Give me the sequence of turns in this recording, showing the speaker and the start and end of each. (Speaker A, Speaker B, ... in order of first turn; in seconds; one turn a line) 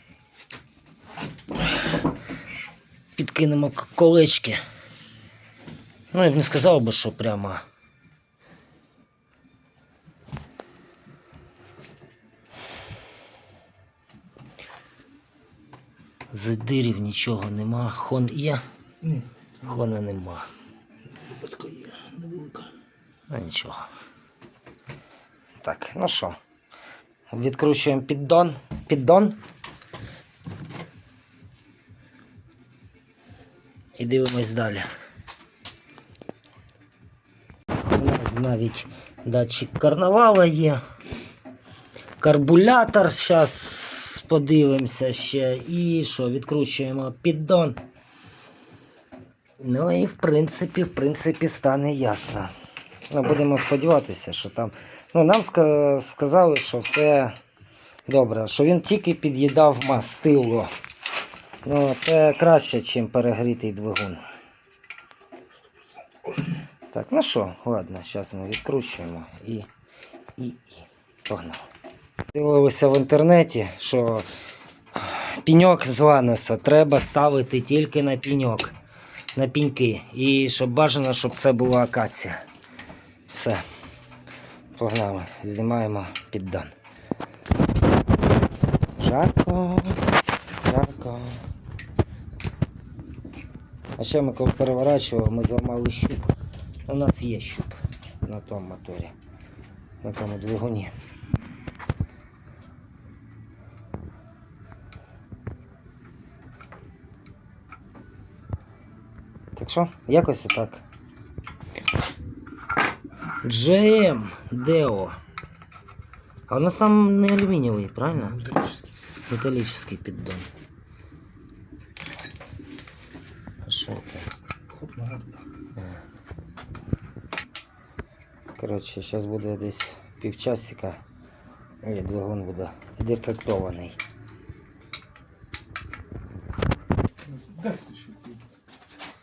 Speaker A: 3.2-4.6
Speaker A: 6.1-7.6
Speaker A: 16.3-18.6
Speaker B: 19.0-19.8
Speaker A: 19.6-20.5
Speaker B: 21.2-22.7
Speaker A: 23.3-23.9
Speaker A: 25.6-26.4
Speaker A: 27.3-29.4
Speaker A: 34.0-34.9
Speaker A: 37.8-40.8
Speaker A: 42.2-47.8
Speaker A: 49.6-52.5
Speaker A: 53.1-57.4
Speaker A: 58.1-60.7
Speaker A: 61.6-64.2
Speaker A: 66.9-69.7
Speaker A: 70.4-71.7
Speaker A: 72.3-74.3
Speaker A: 75.0-78.7
Speaker A: 79.3-82.4
Speaker A: 83.3-83.6
Speaker A: 84.8-86.7
Speaker A: 89.0-90.0
Speaker A: 90.6-91.4
Speaker A: 94.0-96.3
Speaker A: 96.9-99.1
Speaker A: 100.0-100.9
Speaker A: 109.6-110.8
Speaker A: 113.4-115.2
Speaker A: 116.5-118.4
Speaker B: 118.1-118.9
Speaker A: 119.3-120.5
Speaker A: 123.7-124.3
Speaker B: 124.7-125.5
Speaker A: 128.5-131.0
Speaker A: 131.8-134.0
Speaker B: 137.2-138.4